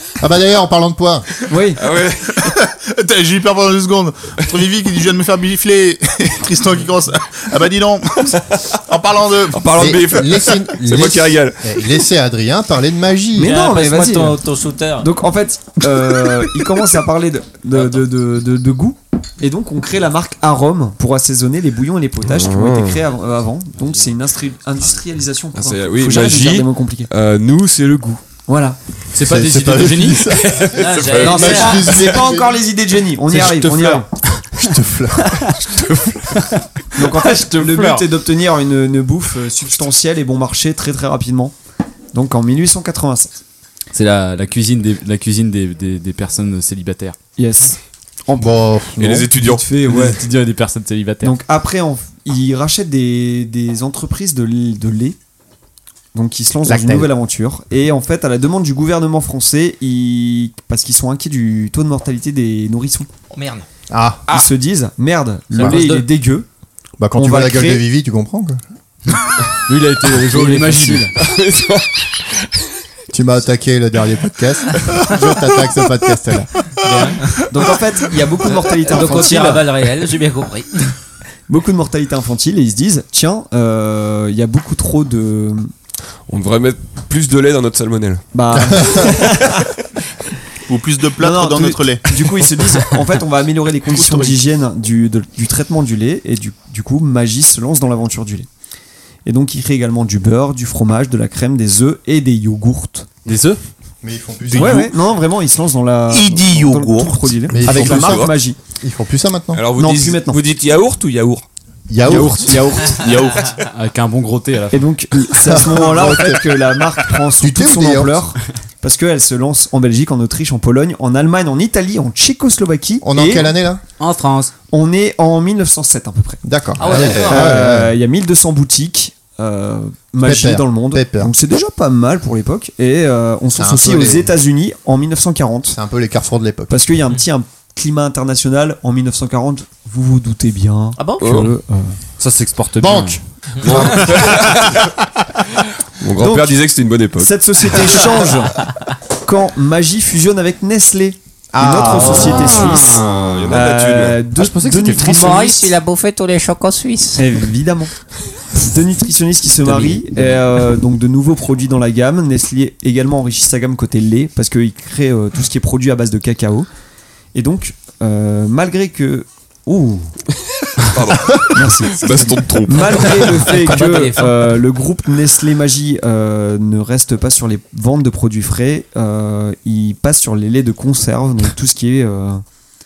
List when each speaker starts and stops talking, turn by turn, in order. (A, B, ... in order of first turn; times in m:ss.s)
0:00.2-0:01.3 A
0:01.5-0:01.8 B
0:01.8-0:02.6 C
0:02.4-0:09.6 D
0:09.5-0:11.6 C
0:09.8-0:13.5 A
0:13.4-0:15.1 E
0:13.4-0:14.4 B
0:15.0-0:27.1 B
0:22.3-0:23.0 C
0:25.5-0:28.2 C
0:26.1-0:26.6 F
0:28.4-0:28.8 B
0:29.1-0:30.3 F
0:29.2-0:32.6 A
0:30.3-0:32.0 C
0:30.7-0:32.0 E
0:31.2-0:34.1 B
0:33.3-0:34.0 F
0:34.5-0:35.5 A
0:35.6-0:36.3 C
0:36.4-0:38.0 F
0:36.9-0:41.5 B
0:42.1-0:43.4 B
0:43.9-0:47.2 F
0:47.4-0:48.5 B
0:48.4-0:49.3 A
0:49.0-0:49.6 C
0:49.4-0:50.2 B
0:49.9-0:51.3 F
0:51.2-0:55.2 B
0:56.1-1:03.1 B
0:56.6-0:57.1 A
1:03.3-1:03.6 E
1:03.9-1:04.2 A
1:04.3-1:06.5 B
1:05.5-1:06.0 E
1:05.6-1:05.9 A
1:07.0-1:08.6 A
1:07.1-1:07.8 B
1:09.7-1:11.1 F
1:10.2-1:11.1 B
1:11.2-1:12.0 C
1:13.1-1:16.5 A
1:16.8-1:17.4 E
1:17.5-1:19.6 B
1:18.8-1:20.9 E
1:21.5-1:25.7 B
1:26.3-1:28.2 C
1:28.3-1:29.6 B
1:28.6-1:29.1 A
1:30.7-1:32.0 D
1:31.2-1:38.5 B
1:33.9-1:34.3 D
1:39.2-1:43.2 B
1:43.2-1:43.6 F
1:44.0-1:44.8 A
1:44.5-1:48.6 B
1:44.5-1:44.9 D
1:46.1-1:47.3 D
1:47.5-1:49.7 A
1:47.6-1:48.3 C
1:49.5-1:51.4 C
1:49.7-1:50.4 B
1:50.4-1:51.0 D
1:51.9-1:52.7 A
1:52.0-1:54.9 F
1:52.1-1:53.0 B
1:53.1-1:53.4 C
1:54.7-2:03.5 B
1:55.4-1:56.4 A
1:57.4-1:58.3 A
2:03.0-2:03.8 A
2:04.0-2:04.5 F
2:04.7-2:15.8 B
2:06.4-2:07.9 A
2:06.8-2:07.5 E
2:10.2-2:11.3 A
2:13.6-2:14.3 A
2:15.7-2:16.8 A
2:16.7-2:22.0 B
2:21.0-2:21.3 E
2:21.2-2:21.5 C
2:22.2-2:23.2 F
2:22.8-2:24.6 A
2:23.6-2:24.9 C
2:26.0-2:27.8 C
2:26.2-2:26.6 B
2:27.2-2:28.6 B
2:29.2-2:32.9 B
2:31.5-2:32.4 A
2:31.9-2:33.3 F
2:32.1-2:34.2 C
2:33.5-2:35.6 B
2:34.4-2:35.5 F
2:35.0-2:37.3 E
2:37.2-2:37.9 B
2:38.5-2:46.7 B
2:39.6-2:40.2 F
2:47.3-2:50.1 B
2:50.8-2:53.5 C
2:51.5-3:02.4 B
2:53.2-2:54.5 E